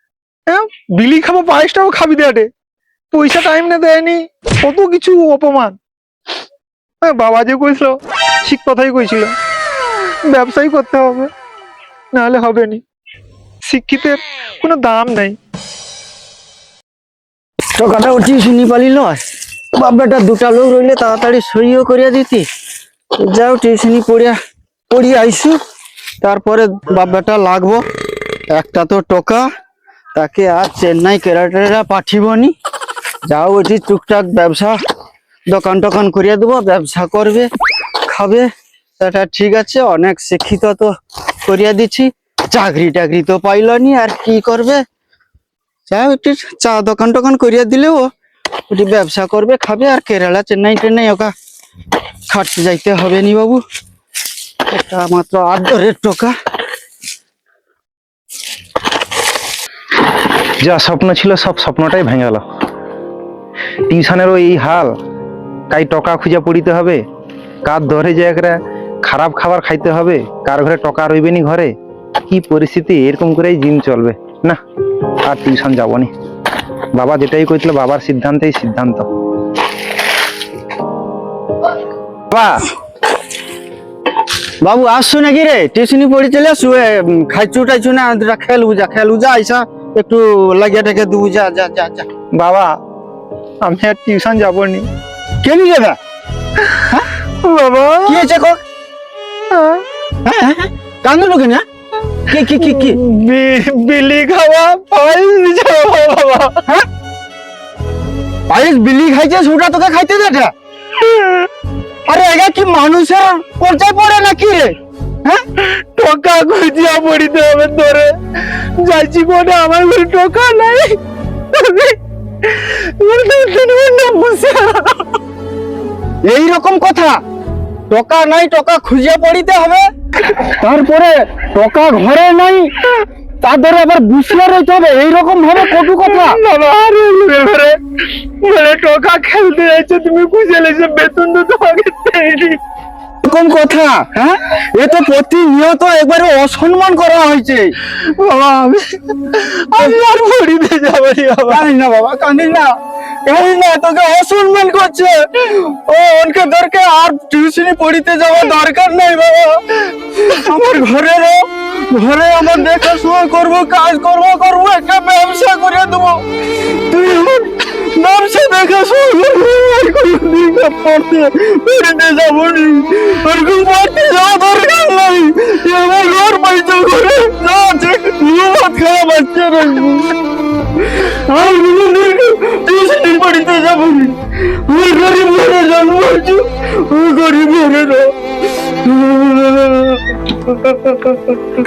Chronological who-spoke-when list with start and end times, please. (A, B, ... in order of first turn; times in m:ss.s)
0:00.5-0:02.4 A
0:03.1-0:05.7 A
0:07.0-0:09.3 A
0:10.3-0:11.3 A
0:12.1-0:12.8 A
0:13.7-0:15.3 A
0:17.8-0:19.2 B
0:19.7-0:22.4 B
0:23.2-0:24.4 B
0:24.9-0:25.6 B
0:26.2-0:27.8 B
0:28.5-0:29.5 B
0:30.1-0:32.5 B
0:33.3-0:34.8 B
0:35.5-0:37.5 B
0:38.1-0:38.5 B
0:39.0-0:40.9 B
0:41.4-0:44.8 B
0:45.9-0:48.1 B
0:48.7-0:51.3 B
0:52.3-0:53.6 B
0:54.7-0:56.3 B
1:00.6-1:02.4 C
1:03.9-1:04.9 C
1:05.7-1:07.0 C
1:07.6-1:11.7 C
1:12.3-1:14.6 C
1:15.2-1:16.1 C
1:16.9-1:19.0 C
1:22.3-1:22.6 C
1:24.6-1:32.1 B
1:32.4-1:32.7 C
1:33.6-1:34.8 C
1:35.4-1:36.0 B
1:37.4-1:38.2 A
1:38.0-1:38.6 B
1:40.2-1:41.6 B
1:42.3-1:43.0 B
1:42.4-1:46.6 A
1:48.5-1:50.5 B
1:51.0-1:51.4 A
1:52.1-1:54.7 B
1:55.7-2:01.0 A
2:01.5-2:05.0 A
2:06.2-2:07.2 B
2:07.9-2:09.9 B
2:10.4-2:12.7 B
2:13.4-2:16.4 B
2:15.8-2:17.7 A
2:18.4-2:22.6 A
2:23.2-2:27.8 B
2:28.1-2:28.8 A
2:29.3-2:31.6 A
2:31.5-2:32.7 B
2:33.2-2:46.2 B
2:46.9-3:00.2 B
3:00.9-3:08.1 B
3:08.8-3:11.3 B